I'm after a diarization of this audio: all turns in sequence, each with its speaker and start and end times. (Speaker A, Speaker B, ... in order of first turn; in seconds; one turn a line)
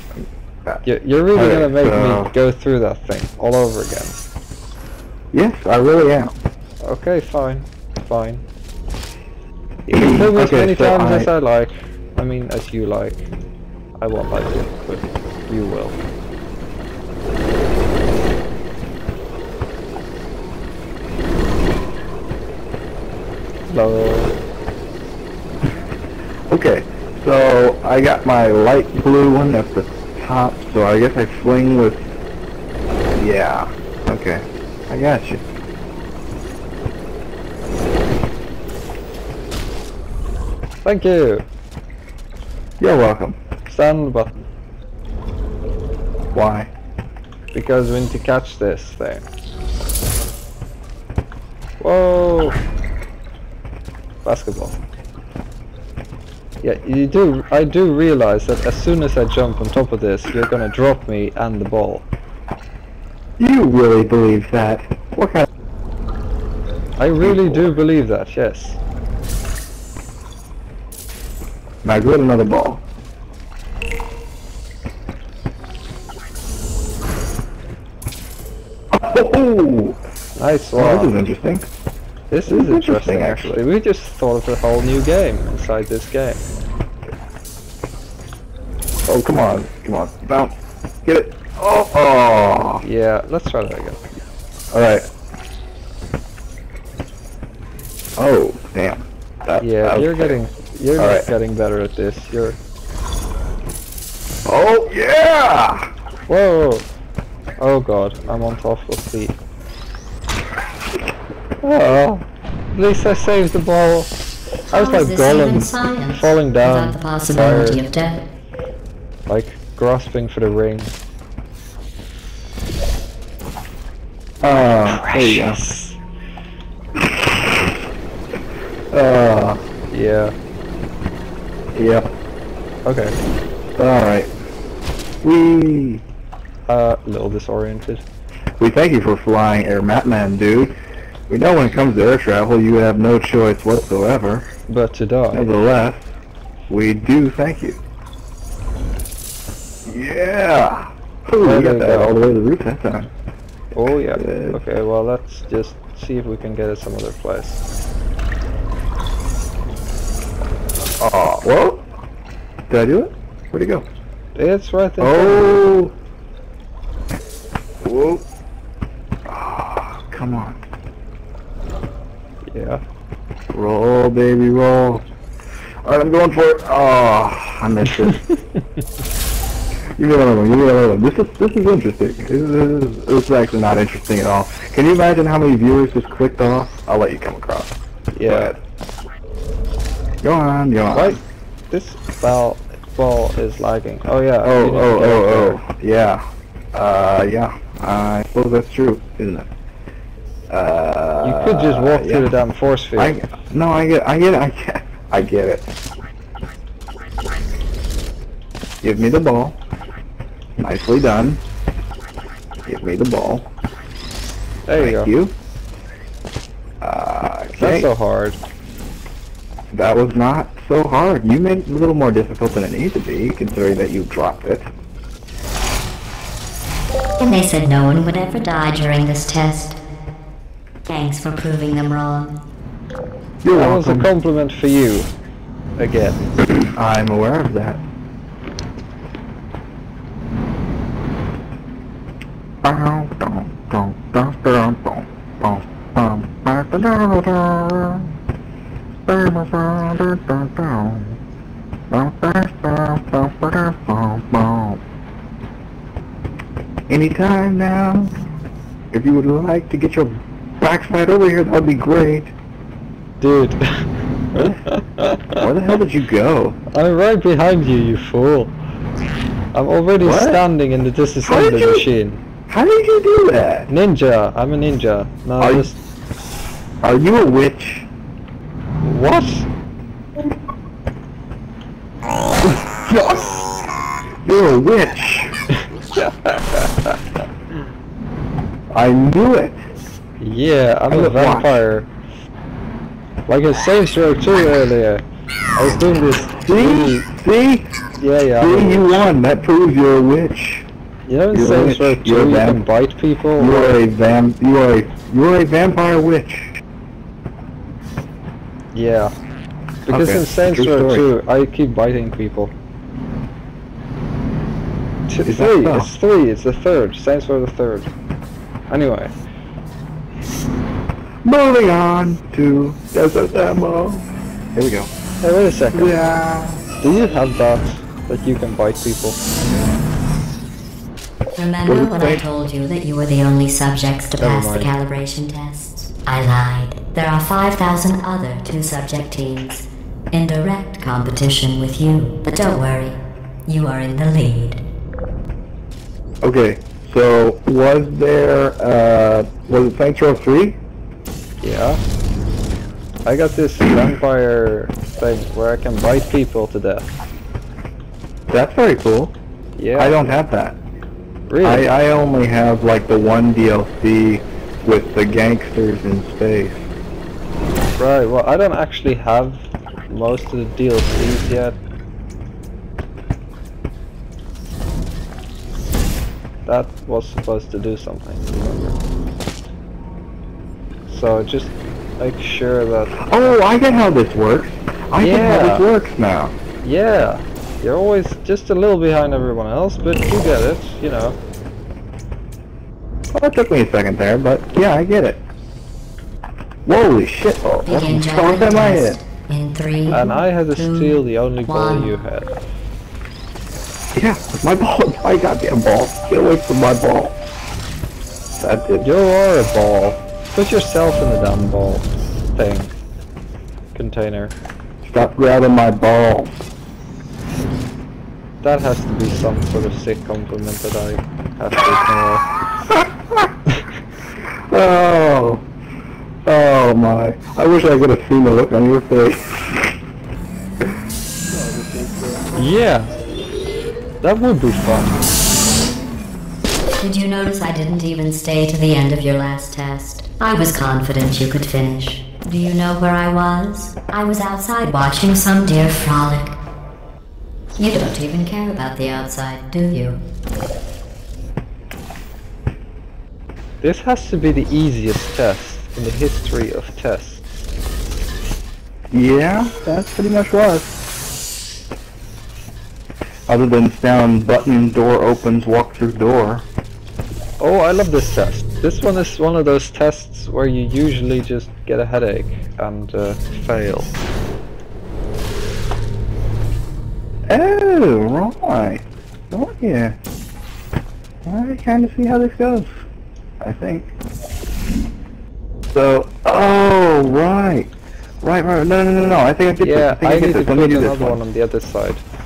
Speaker A: 0.2-2.3
Speaker B: 0.8-4.2
Speaker A: 5.3-6.3
Speaker B: 6.8-8.4
Speaker B: 9.9-13.3
Speaker A: 9.9-11.3
Speaker B: 14.0-16.0
Speaker B: 23.7-24.4
Speaker A: 26.5-32.1
Speaker A: 33.1-35.4
Speaker B: 40.8-41.5
Speaker A: 42.8-43.4
Speaker B: 43.7-44.4
Speaker A: 46.3-46.7
Speaker B: 47.5-49.3
Speaker B: 51.8-52.6
Speaker B: 54.2-54.8
Speaker B: 56.6-62.1
Speaker A: 63.4-65.5
Speaker B: 67.0-68.8
Speaker A: 67.2-67.8
Speaker A: 71.8-72.8
Speaker A: 78.9-80.0
Speaker B: 80.4-81.2
Speaker A: 80.8-81.7
Speaker B: 82.3-86.5
Speaker A: 82.5-83.6
Speaker A: 89.1-90.5
Speaker A: 91.0-92.8
Speaker B: 92.8-94.0
Speaker A: 94.7-95.0
Speaker A: 98.2-100.4
Speaker B: 99.6-102.6
Speaker A: 101.0-101.3
Speaker A: 104.5-105.9
Speaker B: 106.3-106.9
Speaker B: 107.6-109.4
Speaker B: 111.6-114.1
Speaker C: 114.7-118.2
Speaker B: 114.7-117.8
Speaker B: 119.3-120.9
Speaker A: 124.4-125.6
Speaker B: 124.5-126.0
Speaker A: 127.0-127.7
Speaker A: 128.9-129.6
Speaker B: 129.9-130.3
Speaker A: 131.7-132.1
Speaker B: 132.9-133.2
Speaker A: 133.8-134.3
Speaker A: 135.2-136.0
Speaker B: 136.7-138.0
Speaker A: 138.6-140.8
Speaker A: 141.3-144.5
Speaker B: 144.7-145.5
Speaker A: 145.3-146.1
Speaker A: 146.7-147.8
Speaker A: 149.9-153.1
Speaker B: 151.4-152.3
Speaker B: 153.7-157.6
Speaker A: 154.2-154.6
Speaker A: 161.0-161.8
Speaker A: 162.7-163.9
Speaker B: 164.3-165.7
Speaker A: 165.0-165.9
Speaker A: 167.8-168.2
Speaker A: 169.3-170.6
Speaker B: 172.5-172.8
Speaker A: 173.5-175.1
Speaker A: 175.8-178.2
Speaker B: 178.2-178.6
Speaker A: 180.0-188.6
Speaker B: 188.1-188.6
Speaker A: 190.2-191.2
Speaker B: 190.9-195.6
Speaker A: 194.4-199.5
Speaker A: 200.5-202.4
Speaker B: 201.2-203.2
Speaker A: 203.0-205.7
Speaker A: 208.8-209.6
Speaker A: 210.6-211.4
Speaker A: 212.7-213.5
Speaker B: 214.7-215.1
Speaker A: 214.8-215.4
Speaker A: 216.8-217.9
Speaker B: 217.6-218.4
Speaker A: 219.7-224.7
Speaker C: 227.2-229.8
Speaker C: 230.9-232.4
Speaker A: 233.4-234.1
Speaker B: 233.5-235.1
Speaker B: 235.8-236.2
Speaker A: 236.7-237.8
Speaker A: 242.6-248.1
Speaker A: 249.1-251.2
Speaker A: 251.9-254.8
Speaker A: 256.9-258.2
Speaker A: 258.9-262.3
Speaker B: 263.2-265.4
Speaker A: 264.3-264.6
Speaker A: 265.4-266.6
Speaker B: 266.7-268.6
Speaker B: 269.5-272.2
Speaker A: 270.0-270.4
Speaker A: 271.2-271.9
Speaker A: 272.5-273.7
Speaker B: 273.7-275.8
Speaker A: 275.4-275.7
Speaker A: 276.8-277.9
Speaker B: 278.8-279.5
Speaker A: 282.4-283.6
Speaker A: 284.2-285.3
Speaker B: 285.6-287.0
Speaker A: 288.7-289.6
Speaker B: 290.2-291.9
Speaker A: 290.9-291.6
Speaker B: 293.3-297.1
Speaker A: 296.4-297.7
Speaker B: 298.0-299.1
Speaker A: 298.4-300.7
Speaker B: 301.1-303.8
Speaker A: 301.3-302.6
Speaker A: 303.4-306.6
Speaker B: 308.7-309.1
Speaker B: 309.9-312.5
Speaker A: 309.9-311.1
Speaker B: 315.1-317.9
Speaker A: 315.3-315.9
Speaker B: 318.7-319.1
Speaker A: 321.2-324.9
Speaker B: 325.2-326.0
Speaker A: 325.7-326.6
Speaker B: 326.8-329.2
Speaker C: 331.4-344.6
Speaker A: 331.6-332.2
Speaker B: 334.2-334.7
Speaker A: 346.2-350.6
Speaker B: 351.4-351.8
Speaker B: 353.1-356.9
Speaker A: 358.3-359.1
Speaker B: 359.6-360.1
Speaker A: 359.8-360.6
Speaker B: 361.3-361.7
Speaker A: 361.4-366.7
Speaker B: 367.8-371.6
Speaker B: 376.4-378.8
Speaker B: 380.9-383.4
Speaker A: 383.0-386.4
Speaker B: 385.0-385.7
Speaker B: 386.6-391.2
Speaker A: 393.1-395.2
Speaker A: 396.7-399.0
Speaker C: 397.6-402.0
Speaker B: 399.9-402.3
Speaker A: 403.9-407.3
Speaker A: 408.4-408.9
Speaker B: 408.8-412.7
Speaker B: 413.7-414.4
Speaker A: 414.8-416.4
Speaker B: 418.4-422.3
Speaker A: 422.7-423.3
Speaker A: 424.5-425.4
Speaker A: 426.2-429.7
Speaker A: 431.5-432.2
Speaker B: 432.4-432.9
Speaker B: 434.0-435.0
Speaker C: 436.8-446.4
Speaker C: 447.6-450.0
Speaker B: 453.6-457.2
Speaker A: 458.9-460.8
Speaker A: 463.3-466.5
Speaker B: 467.4-473.9
Speaker A: 477.3-480.0
Speaker A: 481.3-482.8
Speaker A: 483.4-483.9
Speaker A: 485.7-487.7
Speaker A: 488.2-491.2
Speaker B: 489.6-492.0